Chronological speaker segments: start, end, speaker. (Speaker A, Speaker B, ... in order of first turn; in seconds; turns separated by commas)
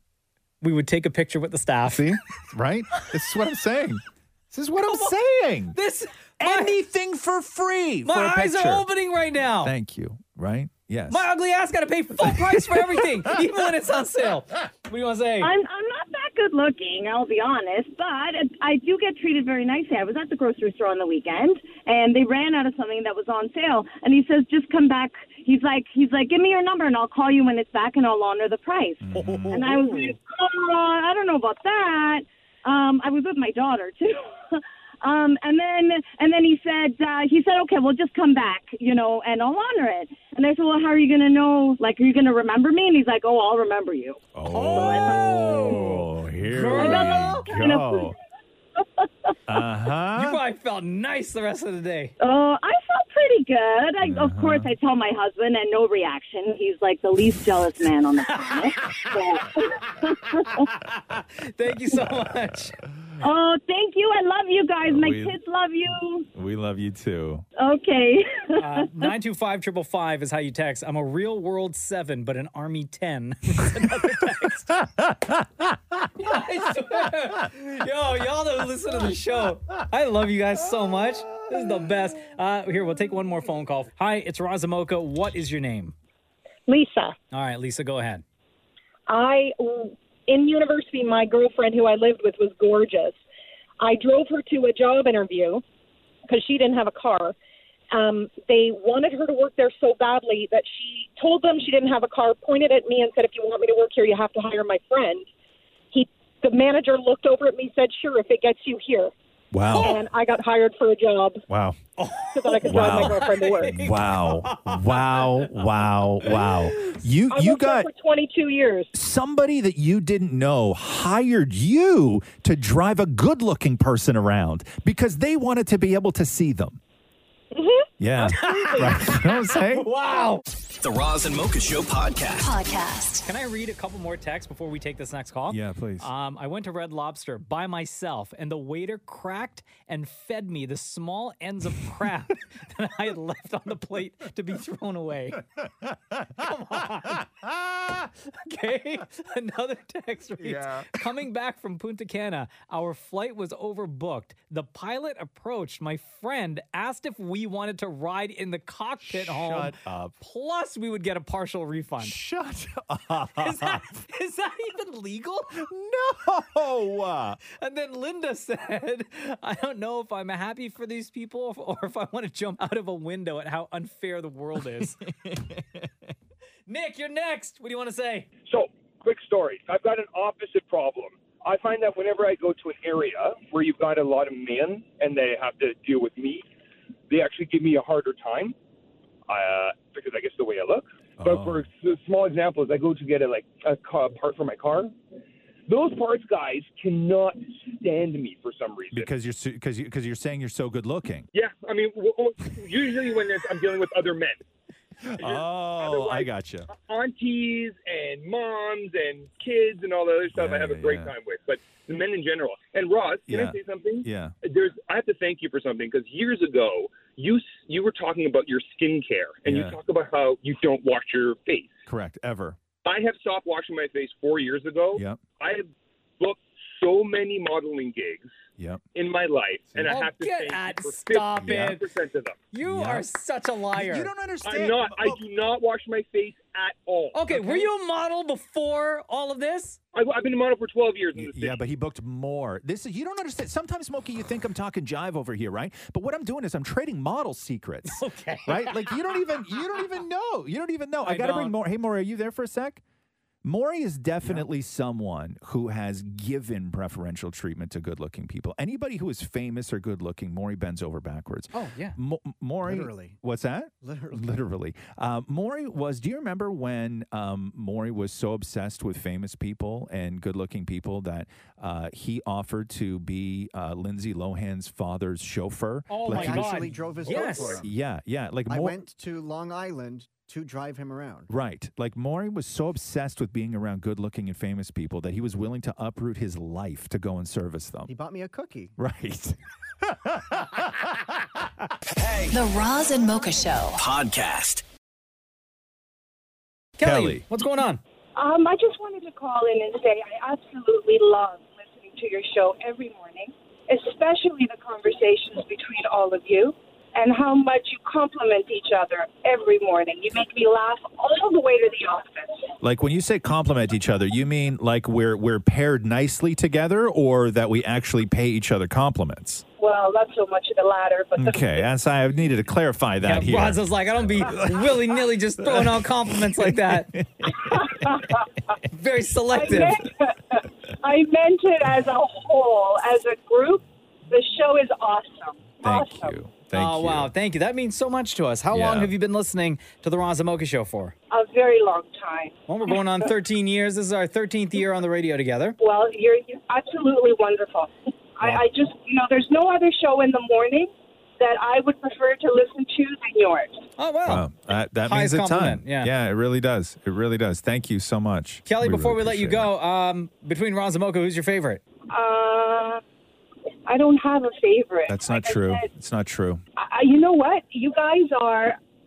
Speaker A: 0.6-2.1, Speaker B: 1.9-5.8, Speaker A: 5.8-6.8, Speaker B: 6.4-8.8, Speaker A: 8.1-9.7, Speaker B: 9.6-11.3, Speaker A: 11.1-15.5, Speaker B: 12.2-13.1, Speaker C: 15.4-45.9, Speaker B: 29.0-29.7, Speaker B: 44.4-48.1, Speaker A: 44.5-47.5, Speaker C: 46.7-48.1, Speaker B: 49.5-50.4, Speaker A: 50.2-52.1, Speaker C: 52.2-60.7, Speaker B: 54.0-54.7, Speaker A: 58.3-58.6, Speaker A: 60.8-62.8, Speaker C: 63.2-66.3, Speaker B: 64.9-65.4, Speaker B: 66.3-67.4, Speaker C: 67.6-68.9, Speaker A: 68.6-74.7, Speaker B: 74.8-75.6, Speaker A: 76.2-85.9, Speaker D: 86.7-87.2, Speaker A: 87.3-88.2, Speaker D: 89.1-93.2, Speaker D: 93.8-95.6, Speaker D: 96.3-97.3, Speaker D: 97.9-105.3, Speaker D: 105.9-109.1, Speaker B: 109.5-110.0, Speaker A: 109.7-110.0, Speaker D: 109.8-111.4, Speaker B: 111.5-111.8, Speaker A: 112.0-115.6, Speaker D: 112.3-113.8, Speaker B: 112.6-117.9, Speaker A: 116.2-117.0, Speaker D: 117.3-118.9, Speaker B: 118.9-126.8, Speaker B: 128.0-129.9, Speaker A: 128.2-130.4, Speaker E: 130.8-132.5, Speaker F: 132.4-133.2, Speaker A: 133.2-145.4, Speaker B: 135.5-136.1, Speaker A: 146.4-147.3, Speaker A: 148.4-162.2, Speaker B: 150.4-150.9, Speaker B: 159.0-160.2, Speaker B: 162.0-164.0, Speaker A: 163.4-165.6, Speaker B: 165.6-167.4, Speaker A: 167.5-175.0, Speaker A: 176.7-178.3, Speaker G: 178.5-186.4, Speaker G: 187.1-188.6, Speaker G: 189.3-194.9, Speaker B: 191.2-191.7, Speaker G: 195.7-199.1, Speaker B: 198.9-201.3, Speaker G: 201.3-204.4, Speaker B: 205.0-206.7, Speaker G: 205.2-221.8, Speaker B: 210.3-211.1, Speaker B: 213.3-214.3, Speaker B: 219.5-219.8, Speaker B: 221.9-222.6, Speaker G: 222.8-225.7, Speaker B: 224.9-225.2, Speaker G: 226.2-228.3, Speaker B: 228.6-228.8, Speaker G: 228.9-232.4, Speaker A: 229.8-231.8, Speaker B: 231.4-231.8, Speaker A: 232.5-234.1, Speaker B: 232.6-233.1, Speaker B: 233.8-235.2, Speaker G: 234.4-237.7, Speaker A: 237.1-239.8, Speaker G: 239.9-241.6, Speaker B: 241.2-252.8, Speaker A: 247.9-249.0, Speaker A: 251.1-251.5, Speaker B: 253.4-278.8, Speaker A: 261.5-262.0, Speaker H: 262.6-263.2, Speaker H: 263.8-264.4, Speaker A: 275.9-277.6, Speaker H: 276.1-277.7, Speaker H: 278.5-281.3, Speaker B: 281.3-287.9, Speaker H: 287.9-288.7, Speaker B: 288.8-290.9, Speaker E: 292.0-292.3, Speaker F: 292.3-293.8, Speaker E: 293.8-294.6, Speaker A: 296.8-297.8, Speaker B: 296.8-297.2, Speaker I: 298.2-312.5, Speaker B: 312.6-319.4, Speaker I: 319.6-321.6, Speaker B: 321.2-324.8, Speaker A: 323.0-326.9, Speaker B: 325.4-327.9, Speaker I: 327.4-328.3, Speaker A: 328.7-329.8, Speaker I: 329.3-336.2, Speaker B: 335.6-337.1, Speaker A: 336.5-340.9, Speaker B: 338.5-338.9, Speaker I: 341.1-342.4, Speaker A: 342.5-345.6, Speaker I: 345.6-353.6, Speaker A: 353.8-354.3, Speaker B: 354.1-359.5, Speaker A: 354.9-355.9, Speaker A: 358.5-361.6, Speaker I: 361.9-362.8, Speaker I: 363.7-365.7, Speaker B: 364.9-366.4, Speaker I: 366.6-368.6